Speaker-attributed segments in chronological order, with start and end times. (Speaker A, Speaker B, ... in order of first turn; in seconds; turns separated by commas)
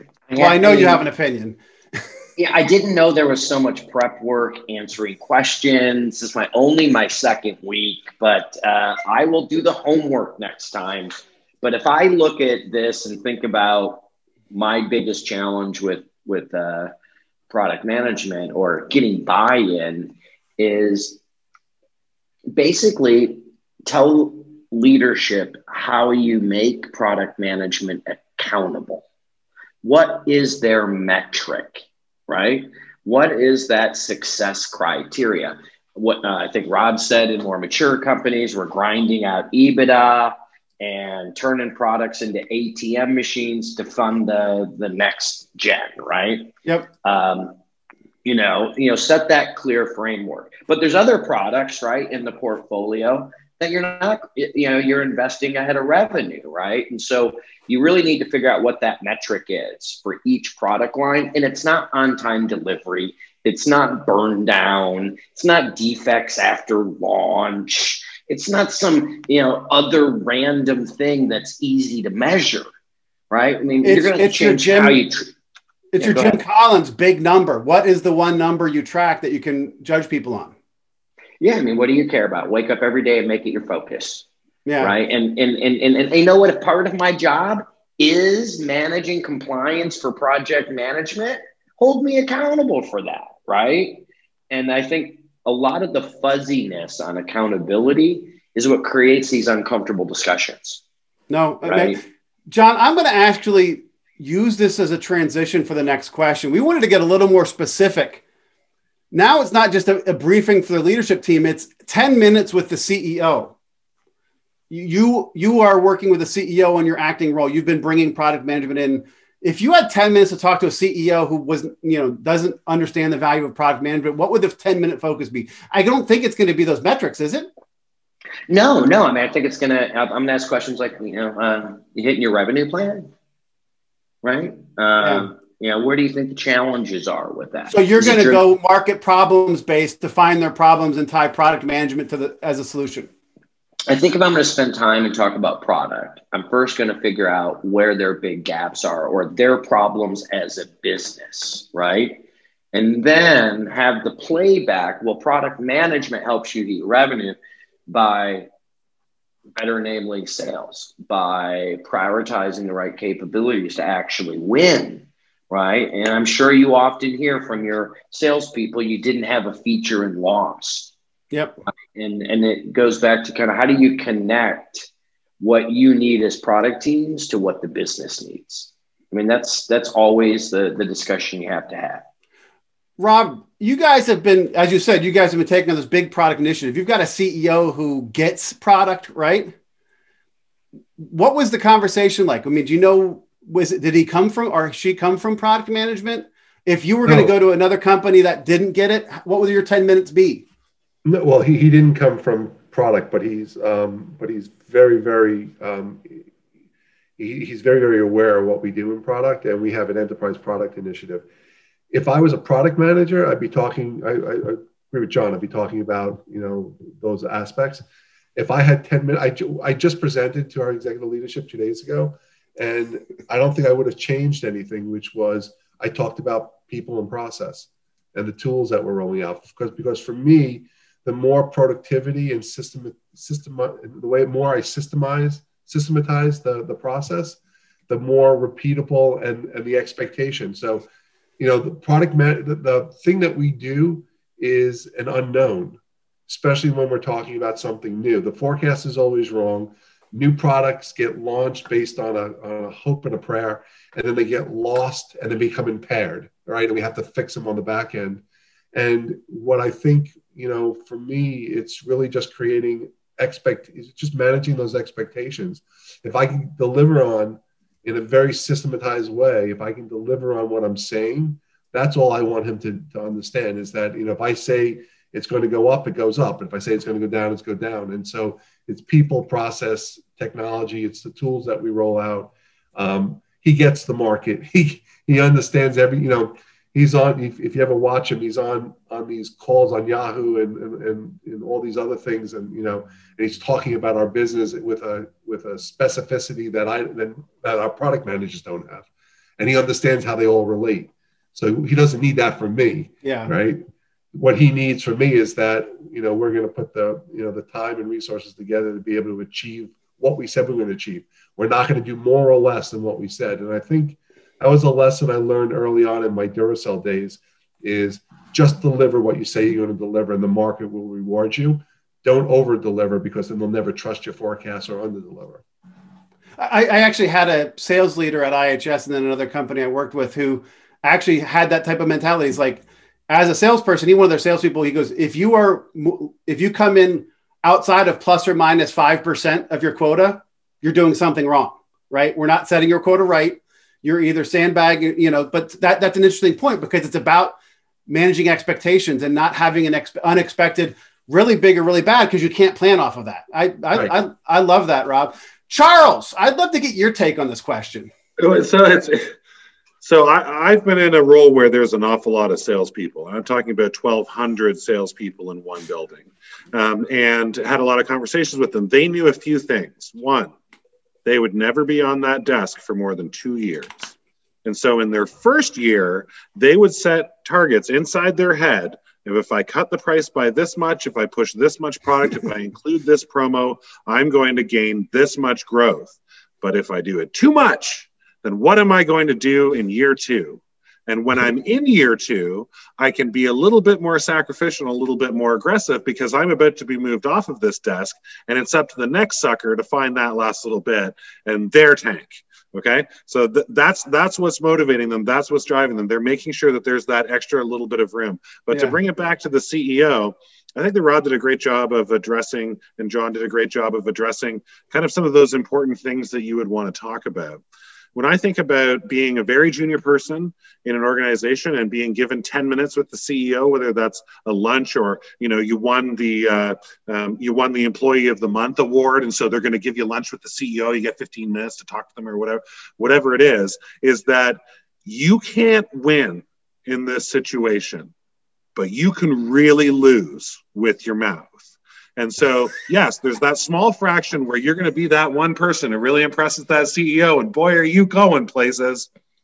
Speaker A: 0.3-1.0, Speaker B: 0.3-1.6, Speaker A: 2.4-16.9, Speaker A: 17.5-21.2, Speaker A: 22.5-29.0, Speaker A: 29.8-46.5, Speaker A: 47.0-47.6, Speaker A: 48.2-72.7, Speaker A: 73.3-75.3, Speaker B: 73.8-75.0, Speaker B: 75.9-80.5, Speaker A: 76.0-76.4, Speaker A: 81.4-84.2, Speaker B: 84.7-84.9, Speaker A: 84.8-100.8, Speaker B: 101.3-102.0, Speaker A: 101.6-102.0, Speaker B: 102.5-108.2, Speaker B: 109.1-113.5, Speaker B: 114.7-127.5, Speaker A: 128.5-133.1, Speaker A: 134.2-138.4, Speaker B: 137.7-143.1, Speaker A: 143.9-158.5, Speaker A: 159.6-170.9, Speaker A: 171.9-174.9, Speaker A: 175.4-182.0, Speaker B: 183.0-189.5, Speaker B: 191.0-200.4, Speaker C: 197.1-197.3, Speaker C: 201.0-206.2, Speaker C: 207.2-211.2, Speaker C: 211.9-217.8, Speaker C: 218.3-237.4, Speaker C: 237.9-240.9, Speaker C: 241.4-258.2, Speaker C: 258.7-298.9, Speaker C: 299.4-325.4, Speaker B: 303.0-303.3, Speaker B: 326.4-347.4, Speaker B: 347.9-357.9, Speaker D: 358.2-359.1, Speaker D: 359.8-370.3, Speaker D: 371.0-373.9, Speaker D: 374.4-417.4, Speaker D: 417.9-437.9, Speaker D: 438.6-448.9